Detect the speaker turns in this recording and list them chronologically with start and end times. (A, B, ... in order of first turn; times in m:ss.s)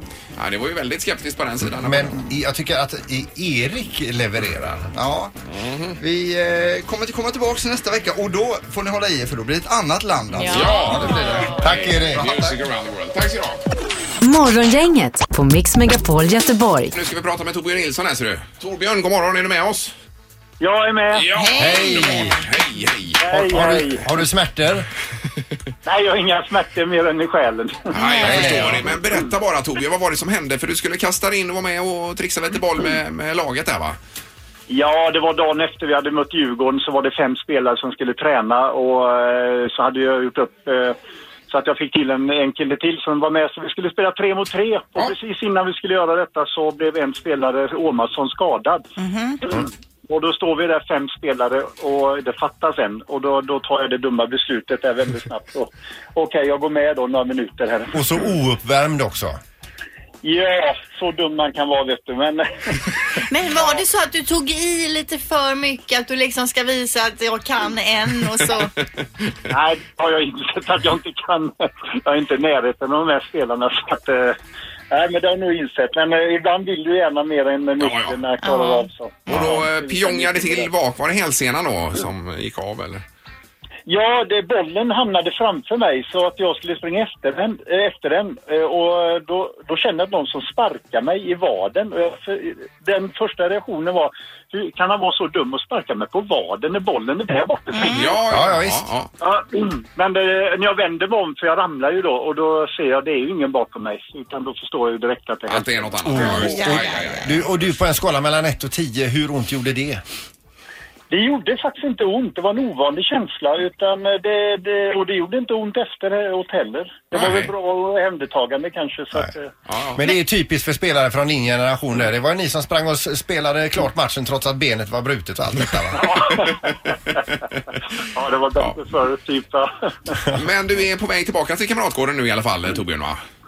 0:00.4-0:02.2 A
0:01.6-0:04.9 B
0:04.9-0:05.3 C
0:05.5-0:06.0 A
0:06.0-0:11.6 C
0:10.4-0:11.6 D
0:10.4-0:13.6 A
0:11.6-0:12.3 B
0:12.2-0:12.4 C
0:14.2-0:16.9 E
0:16.9-0:19.9 A
0:20.6-0:21.3 F
0:21.1-0:23.2 A
0:21.4-0:22.0 D
0:21.5-0:22.4 B
0:23.2-0:24.0 F
0:23.3-0:24.9 B
0:25.8-0:27.9 F
0:27.9-0:34.0 A
0:27.9-0:28.4 D
0:28.2-0:28.9 B
0:34.7-0:41.0 F
0:41.5-0:48.8 F
0:49.0-0:49.4 D
0:49.4-0:58.2 F
0:57.9-0:59.4 B
1:00.2-1:02.5 F
1:03.3-1:08.7 D
1:09.5-1:14.4 F
1:14.9-1:20.7 F
1:17.8-1:18.2 A
1:18.4-1:18.9 D
1:19.3-1:23.0 A
1:23.9-1:38.2 F
1:37.8-1:39.1 A
1:38.3-1:38.8 B
1:39.2-1:46.6 F
1:45.5-1:47.7 A
1:46.0-1:50.0 B
1:51.1-1:59.5 F
1:57.1-1:57.5 A
1:59.7-2:00.0 A
2:00.0-2:06.0 B
2:05.9-2:07.2 F
2:08.1-2:10.2 F
2:10.3-2:13.2 A